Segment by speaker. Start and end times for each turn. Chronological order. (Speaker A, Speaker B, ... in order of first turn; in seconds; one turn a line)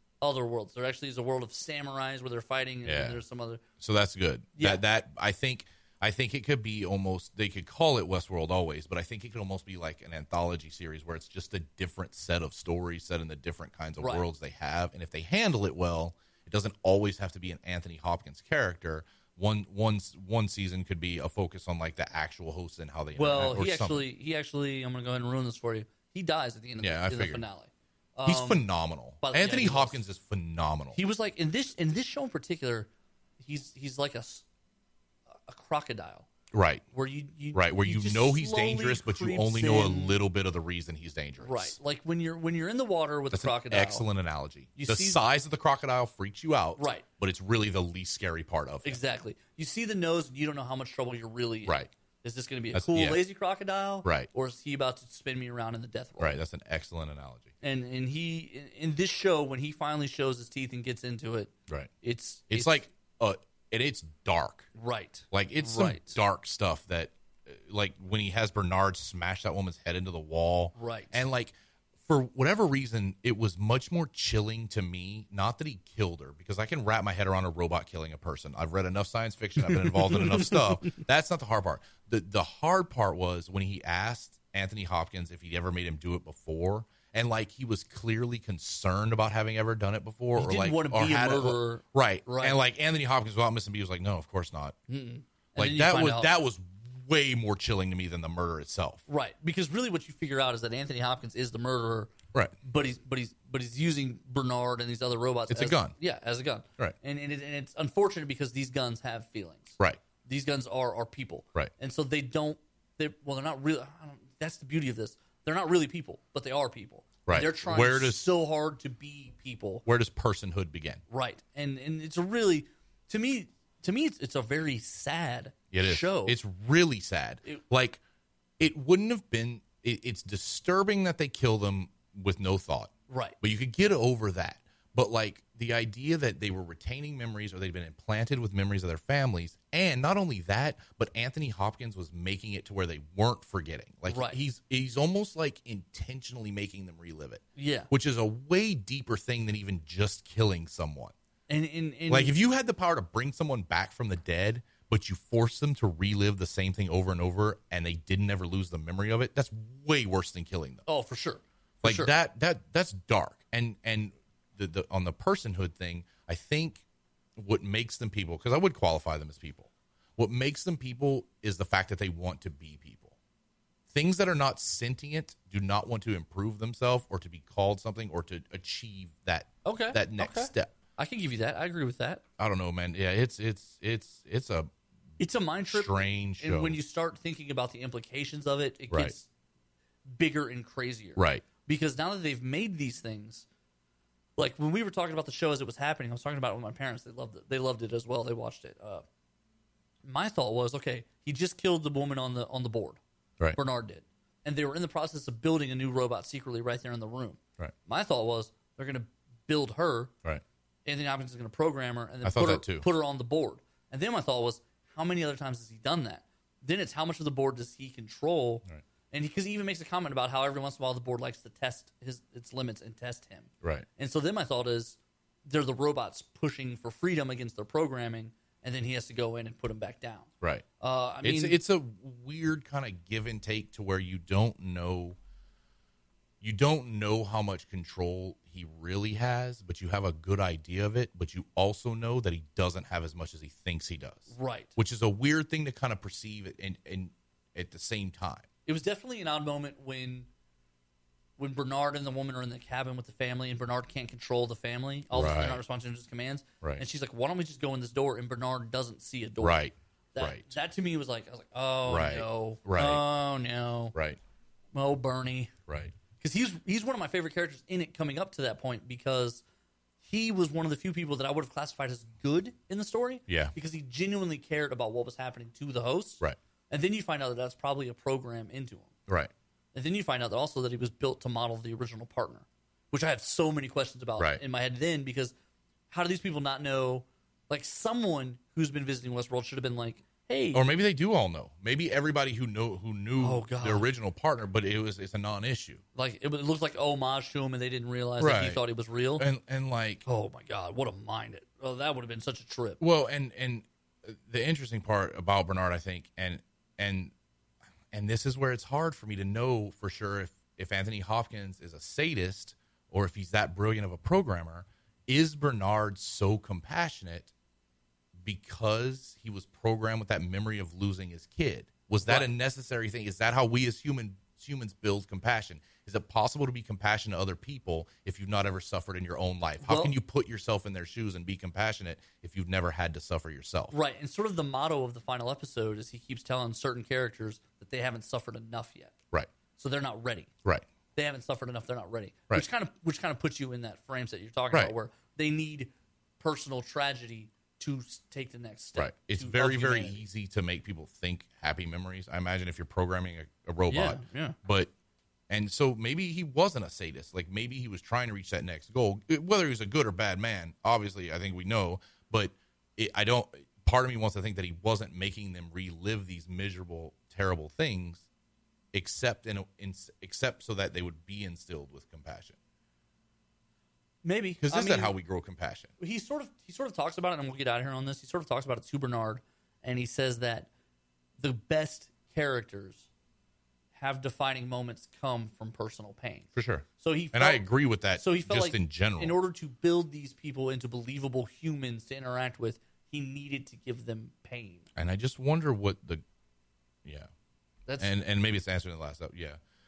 Speaker A: 0.2-3.6
Speaker B: 2.9-3.2
Speaker B: 3.8-24.0
Speaker A: 4.6-4.8
Speaker A: 14.0-14.2
Speaker A: 23.2-28.7
Speaker B: 26.8-27.4
Speaker B: 28.2-31.0
Speaker A: 29.2-30.0
Speaker A: 30.9-32.9
Speaker A: 33.4-34.5
Speaker A: 35.5-36.3
Speaker B: 36.5-36.8
Speaker A: 36.9-40.2
Speaker B: 37.5-41.8
Speaker A: 41.4-44.0
Speaker B: 43.3-49.0
Speaker A: 44.8-45.2
Speaker A: 46.8-47.0
Speaker A: 48.8-56.4
Speaker B: 51.6-51.9
Speaker B: 52.7-53.2
Speaker B: 54.0-54.3
Speaker B: 56.2-57.5
Speaker A: 57.6-62.9
Speaker B: 62.5-64.7
Speaker A: 64.8-66.2
Speaker B: 65.3-94.8
Speaker A: 70.8-71.2
Speaker A: 79.7-81.0
Speaker A: 90.4-92.6
Speaker A: 94.9-96.3
Speaker B: 95.6-99.0
Speaker A: 99.1-102.1
Speaker A: 102.6-119.8
Speaker B: 105.5-106.0
Speaker B: 117.3-118.2
Speaker B: 119.9-121.0
Speaker A: 121.1-126.4
Speaker B: 125.7-128.0
Speaker B: 128.6-151.1
Speaker A: 133.1-133.4
Speaker A: 144.1-144.4
Speaker A: 147.6-147.9
Speaker A: 151.5-152.3
Speaker B: 152.1-160.8
Speaker A: 160.9-162.2
Speaker B: 161.8-166.8
Speaker B: 167.4-173.2
Speaker B: 173.9-180.7
Speaker A: 179.6-182.2
Speaker B: 182.4-184.7
Speaker A: 185.2-189.3
Speaker B: 185.7-186.8
Speaker A: 190.1-193.5
Speaker B: 191.2-191.4
Speaker A: 194.4-199.1
Speaker A: 200.0-203.0
Speaker A: 203.6-210.1
Speaker A: 210.8-230.3
Speaker B: 212.2-212.9
Speaker B: 223.6-223.9
Speaker A: 230.8-231.6
Speaker B: 231.2-235.2
Speaker B: 236.4-248.5
Speaker A: 244.3-244.7
Speaker A: 248.7-250.3
Speaker A: 251.4-259.6
Speaker B: 255.1-255.6
Speaker B: 259.4-260.5
Speaker A: 260.1-263.9
Speaker B: 261.9-263.0
Speaker B: 263.9-264.2
Speaker A: 264.7-265.5
Speaker B: 265.7-265.9
Speaker A: 266.2-269.4
Speaker A: 270.0-278.9
Speaker B: 273.3-273.5
Speaker A: 279.7-285.3
Speaker A: 285.9-290.7
Speaker B: 290.5-295.8
Speaker A: 293.2-293.9
Speaker A: 295.9-299.3
Speaker B: 298.2-298.6
Speaker B: 299.2-300.0
Speaker A: 300.1-302.8
Speaker B: 302.8-307.1
Speaker B: 307.9-317.3
Speaker B: 318.2-333.8
Speaker A: 322.0-322.3
Speaker A: 329.6-330.0
Speaker A: 333.7-338.9
Speaker A: 339.6-340.3
Speaker A: 341.0-350.0
Speaker B: 348.8-354.7
Speaker A: 353.7-354.4
Speaker B: 355.3-368.1
Speaker B: 368.7-372.4
Speaker A: 374.0-374.9
Speaker B: 374.4-375.7
Speaker A: 375.8-380.5
Speaker A: 381.2-382.9
Speaker A: 383.8-394.7
Speaker B: 386.4-389.2
Speaker B: 394.8-396.0
Speaker B: 396.9-397.1
Speaker B: 397.8-399.4